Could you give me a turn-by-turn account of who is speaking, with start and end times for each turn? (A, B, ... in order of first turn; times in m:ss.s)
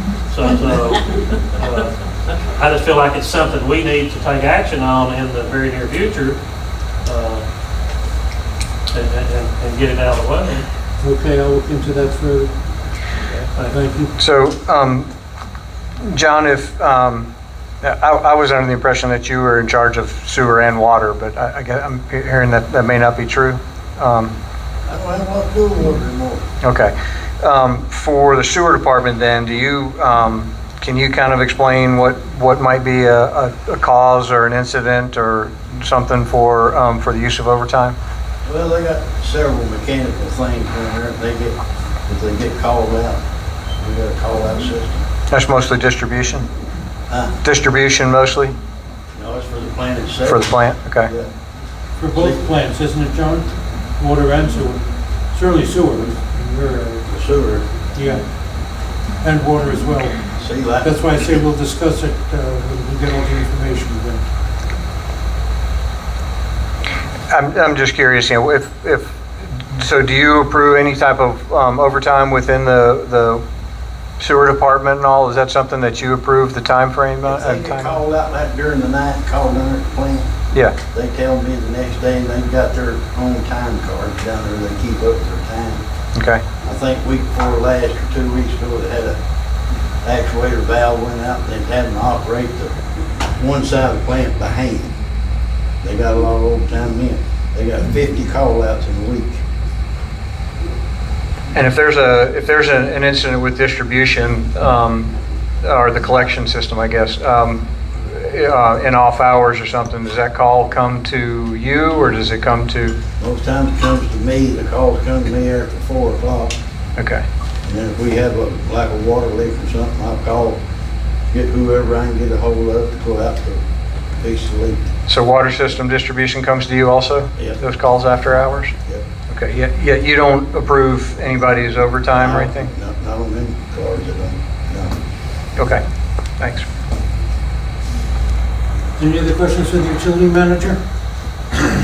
0:00.2-0:06.4 A
0:07.0-0:07.4 A
0:08.9-0:10.6 A
0:11.0-0:12.5 B
0:13.5-0:13.8 A
0:13.7-0:14.1 B
0:14.2-0:15.1 C
0:16.0-0:17.3 C
0:17.8-0:24.3 C
0:24.8-0:26.4 D
0:26.6-0:38.0 C
0:38.4-0:43.2 D
0:43.8-0:45.0 D
0:45.3-0:46.5 C
0:47.1-0:47.4 D
0:47.4-0:48.5 C
0:49.1-0:50.5 D
0:50.2-0:51.1 C
0:51.0-0:51.3 D
0:52.0-0:57.0 B
0:52.1-0:52.4 D
0:57.1-0:57.6 D
0:57.9-0:58.2 B
0:59.2-1:00.2 B
1:00.3-1:01.2 D
1:00.8-1:04.2 B
1:07.3-1:13.4 C
1:14.2-1:18.0 C
1:17.2-1:20.2 D
1:20.9-1:25.8 D
1:26.2-1:26.4 C
1:26.6-1:29.2 D
1:30.0-1:32.7 D
1:33.4-1:35.0 D
1:35.8-1:39.4 D
1:41.5-1:53.0 C
1:53.2-1:56.5 D
1:57.0-1:57.2 C
1:57.6-2:00.6 D
2:01.3-2:03.6 D
2:04.2-2:04.9 D
2:05.1-2:08.7 C
2:09.3-2:12.7 C
2:12.1-2:15.0 D
2:15.6-2:15.8 C
2:16.4-2:16.6 C
2:19.0-2:20.8 B